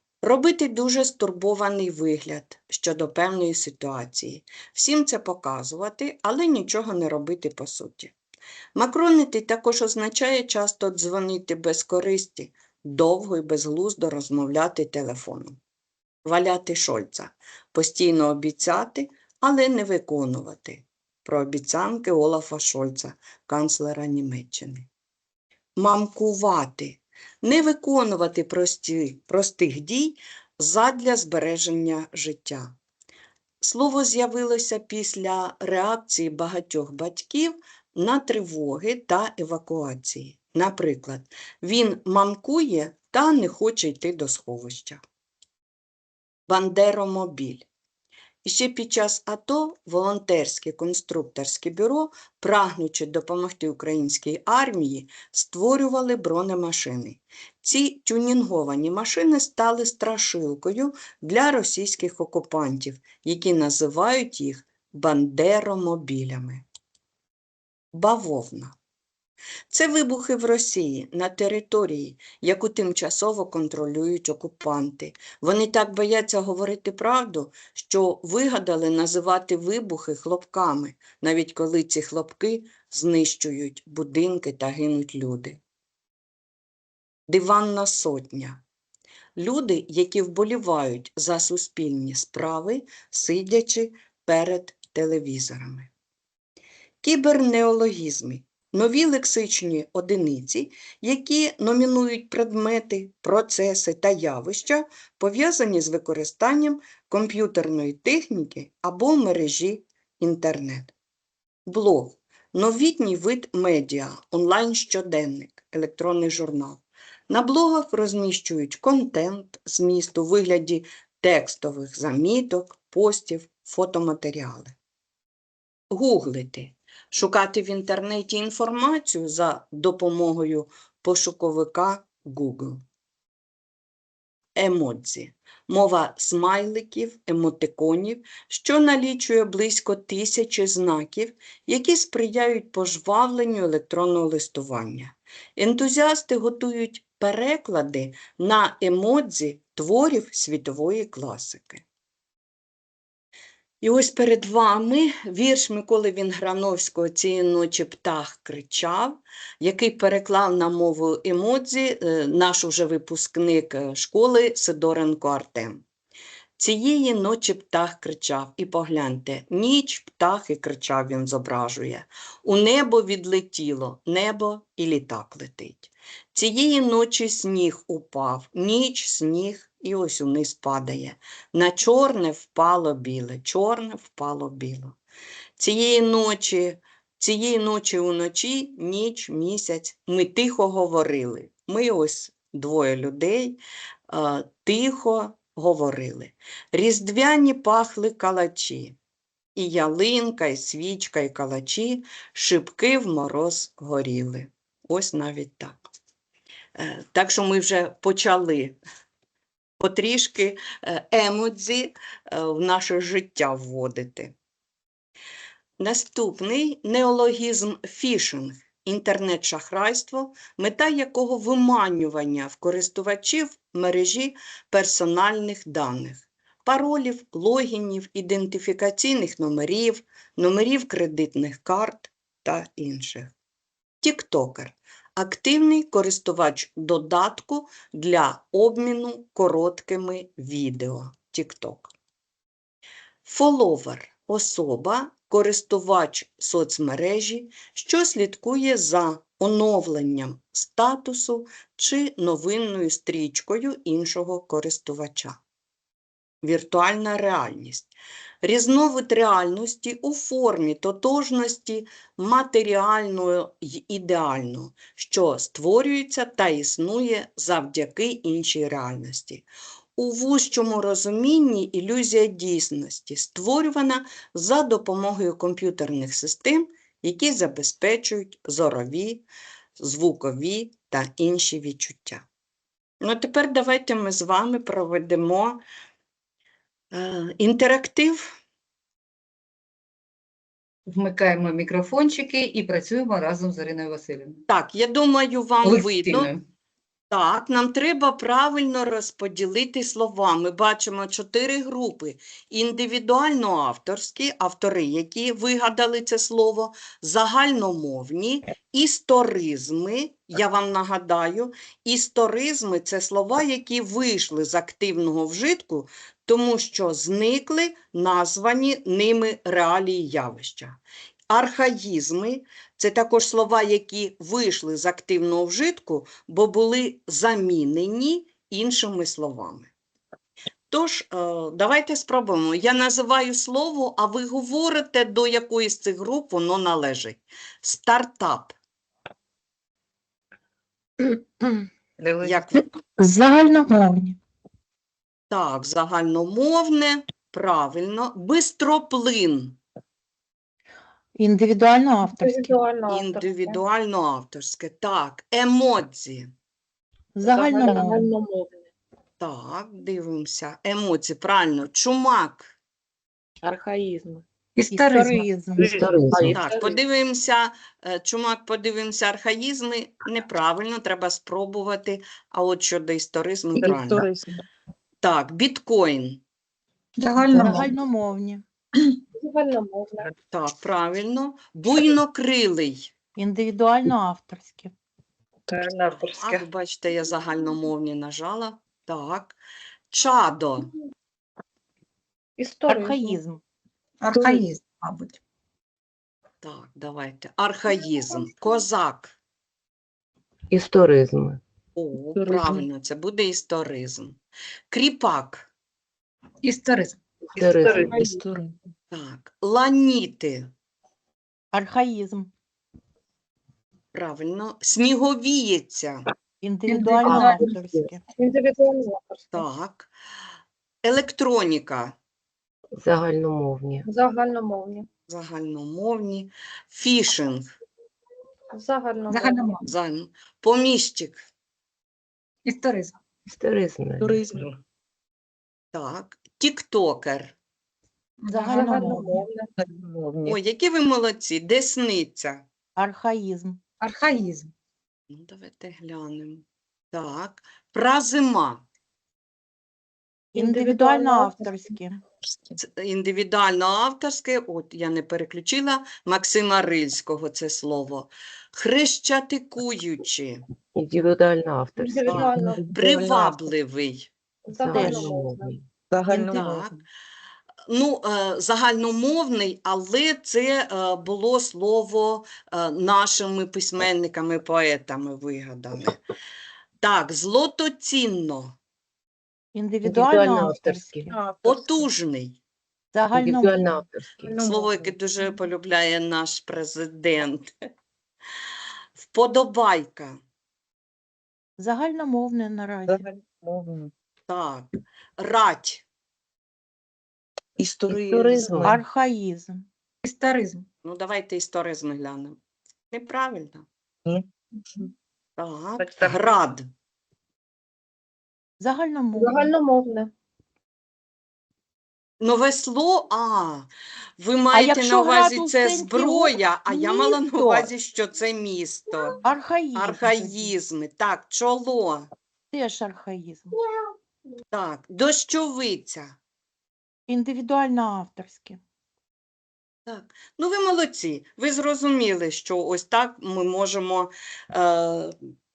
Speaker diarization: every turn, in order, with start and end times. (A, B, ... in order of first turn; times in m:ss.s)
0:00.2-0:08.2 A
0:08.8-0:15.6 A
0:16.2-0:24.9 A
0:25.8-0:32.7 A
0:33.6-0:45.0 A
0:46.5-0:47.7 A
0:48.4-1:06.6 A
1:07.9-1:08.7 A
1:09.7-1:25.6 A
1:27.3-1:28.6 A
1:29.4-1:35.9 A
1:37.0-1:50.9 A
1:51.7-2:04.8 A
2:05.9-2:12.8 A
2:14.6-2:31.8 A
2:33.8-2:45.8 A
2:46.6-3:05.0 A
3:05.6-3:13.6 A
3:14.1-3:19.0 A
3:19.6-3:25.8 A
3:26.8-3:28.8 A
3:29.8-3:34.4 A
3:35.8-3:53.3 A
3:54.0-4:01.9 A
4:03.2-4:15.4 A
4:16.4-4:17.9 A
4:18.4-4:29.5 A
4:30.0-4:39.2 A
4:39.8-4:42.3 A
4:43.0-4:45.6 A
4:46.9-4:48.4 A
4:50.9-4:54.4 B
4:54.5-4:56.4 A
4:55.6-4:56.4 B
4:57.1-5:20.8 A
5:21.3-5:29.7 A
5:30.7-5:38.6 A
5:42.0-5:42.4 B
5:42.2-5:42.6 A
5:43.0-5:44.2 C
5:45.3-5:49.6 A
5:51.2-5:52.6 C
5:52.2-5:53.6 D
5:52.9-5:56.3 A
5:57.2-5:58.1 C
5:57.2-5:58.7 D
5:59.2-6:02.5 A
6:03.7-6:04.2 D
6:04.6-6:06.4 B
6:04.7-6:05.9 C
6:05.6-6:06.4 E
6:06.3-6:14.1 A
6:13.6-6:14.3 B
6:15.0-6:16.2 A
6:17.0-6:17.7 B
6:17.3-6:18.4 C
6:19.2-6:20.1 D
6:20.3-6:22.9 A
6:23.2-6:24.7 C
6:25.5-6:26.4 B
6:26.0-6:29.4 A
6:29.9-6:30.7 A
6:32.4-6:33.2 D
6:32.7-6:33.4 C
6:34.0-6:35.2 B
6:34.1-6:34.4 D
6:36.4-6:39.2 A
6:40.5-6:41.4 E
6:41.8-6:44.2 A
6:42.2-6:42.6 B
6:44.7-6:45.5 A
6:46.4-6:48.6 B
6:47.4-6:48.2 E
6:47.9-6:48.2 D
6:48.9-6:50.5 A
6:51.5-6:52.3 C
6:53.9-6:56.1 A
6:56.4-6:58.0 C
6:56.7-6:57.5 B
6:57.0-6:57.9 E
6:57.1-6:57.4 D
6:58.2-6:59.4 D
6:59.3-6:59.9 A
7:00.8-7:02.0 A
7:02.8-7:03.9 E
7:03.8-7:04.9 D
7:05.1-7:07.5 A
7:08.5-7:09.6 D
7:09.1-7:09.7 B
7:09.7-7:11.3 A
7:12.4-7:13.0 B
7:13.3-7:14.3 E
7:14.0-7:14.6 B
7:15.7-7:17.4 A
7:18.2-7:20.4 B
7:18.3-7:19.3 C
7:18.5-7:19.5 D
7:20.2-7:22.5 A
7:22.8-7:23.6 C
7:23.8-7:24.5 B
7:25.1-7:28.6 A
7:30.3-7:32.0 C
7:30.4-7:31.8 D
7:32.6-7:40.4 A
7:40.7-7:42.7 E
7:41.8-7:42.7 D
7:42.1-7:44.1 A
7:42.2-7:43.5 B
7:44.5-7:45.5 D
7:44.6-7:45.7 E
7:44.7-7:45.1 C
7:45.9-7:46.7 B
7:46.3-7:46.8 A
7:47.7-7:56.0 A
7:56.8-7:58.6 A
7:59.5-8:01.8 C
7:59.8-8:01.2 E
8:01.4-8:02.4 A
8:02.9-8:03.8 C
8:03.1-8:04.7 E
8:04.4-8:07.5 A
8:09.0-8:10.2 A
8:11.6-8:13.1 C
8:12.9-8:13.9 B
8:14.3-8:15.8 A
8:17.6-8:18.8 B
8:17.9-8:18.8 E
8:18.6-8:19.7 C
8:20.0-8:20.7 B
8:20.8-8:22.4 A
8:22.9-8:23.7 A
8:25.4-8:26.7 A
8:25.8-8:26.2 B
8:28.6-8:29.5 C
8:29.2-8:30.1 D
8:32.2-8:33.7 A
8:34.2-8:39.2 A
8:34.5-8:37.7 C
8:39.2-8:40.5 C
8:39.8-8:42.1 A
8:42.5-8:43.6 C
8:44.5-8:46.2 A
8:47.1-8:48.6 C
8:49.9-8:55.1 A